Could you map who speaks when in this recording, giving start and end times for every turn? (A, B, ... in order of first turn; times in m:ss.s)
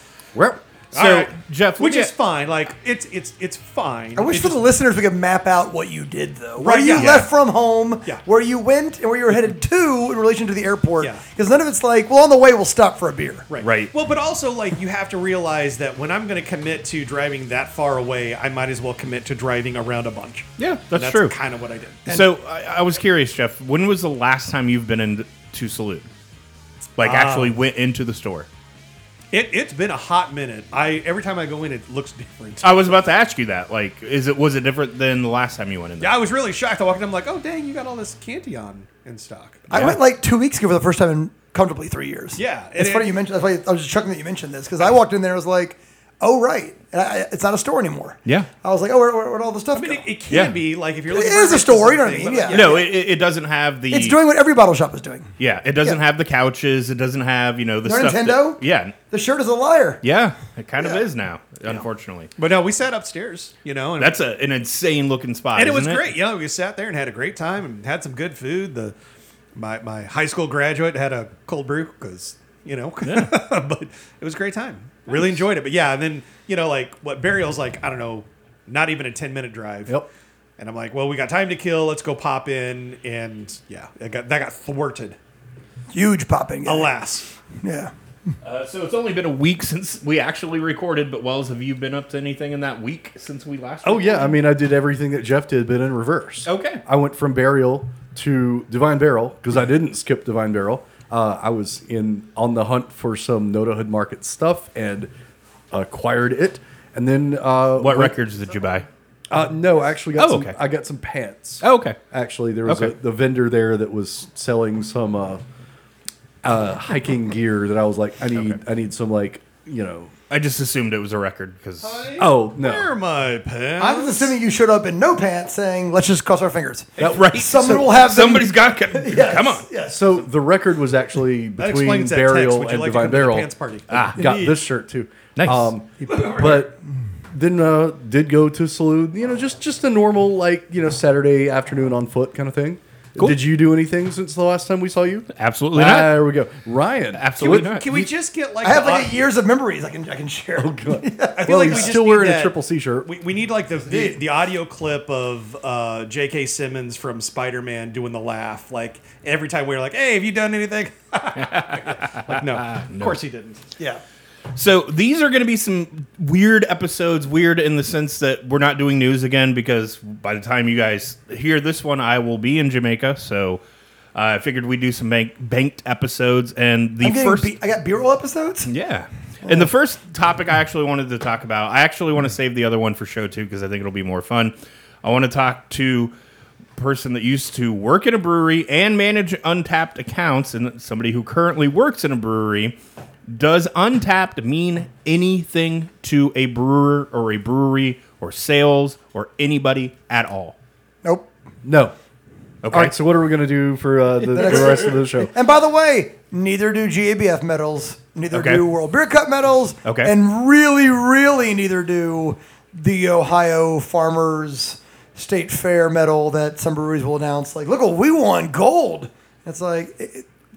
0:00.3-0:00.6 A
0:00.9-0:02.1 B
0:00.9-0:04.6 C
0:04.2-0:13.5 D
0:06.6-0:07.3 C
0:06.9-0:07.2 B
0:13.5-0:22.0 C
0:13.6-0:13.9 B
0:20.6-0:21.4 B
0:22.1-0:26.1 B
0:27.0-0:28.5 B
0:27.0-0:27.5 C
0:29.3-0:33.0 C
0:32.6-0:36.2 B
0:36.0-0:39.9 C
0:39.7-0:50.1 D
0:39.7-0:40.0 B
0:42.4-0:43.2 C
0:49.7-0:52.9 C
0:50.3-0:50.6 B
0:51.1-0:52.9 D
0:52.5-0:54.2 B
0:53.9-0:55.3 D
0:55.4-0:59.0 B
0:57.8-1:00.0 D
1:00.0-1:02.3 B
1:02.4-1:04.2 C
1:04.0-1:06.1 B
1:05.5-1:08.9 C
1:09.6-1:20.0 C
1:13.0-1:13.3 B
1:15.1-1:15.4 B
1:20.6-1:25.2 C
1:25.9-1:27.0 D
1:26.6-1:27.3 C
1:27.6-1:27.9 D
1:28.4-1:34.4 B
1:33.8-1:45.1 A
1:36.5-1:36.8 B
1:45.7-1:48.2 A
1:47.8-1:48.9 B
1:49.3-1:55.4 A
1:50.2-1:50.6 B
1:51.6-1:52.0 B
1:52.6-1:52.9 B
1:56.4-2:00.1 A
2:00.3-2:02.2 B
2:01.8-2:04.4 C
2:02.2-2:02.9 A
2:03.8-2:10.2 D
2:07.0-2:08.0 A
2:07.0-2:09.7 B
2:09.9-2:13.5 A
2:11.6-2:14.5 C
2:13.9-2:14.4 B
2:14.1-2:16.8 A
2:15.4-2:15.7 B
2:16.0-2:16.6 D
2:17.3-2:28.1 A
2:25.3-2:26.2 B
2:27.1-2:27.9 B
2:27.4-2:29.2 C
2:28.6-2:32.0 D
2:30.6-2:33.1 A
2:31.4-2:44.0 C
2:33.9-2:34.2 D
2:41.4-2:43.2 B
2:44.6-2:53.6 B
2:54.2-2:57.5 B
2:57.0-2:58.7 D
2:58.7-3:06.1 B
2:59.4-2:59.7 D
3:06.8-3:12.8 B
3:13.3-3:20.6 B
3:21.0-3:21.3 D
3:21.6-3:22.0 A
3:22.6-3:23.0 B
3:22.7-3:25.3 A
3:24.4-3:40.3 D
3:28.3-3:28.6 B
3:29.9-3:30.1 B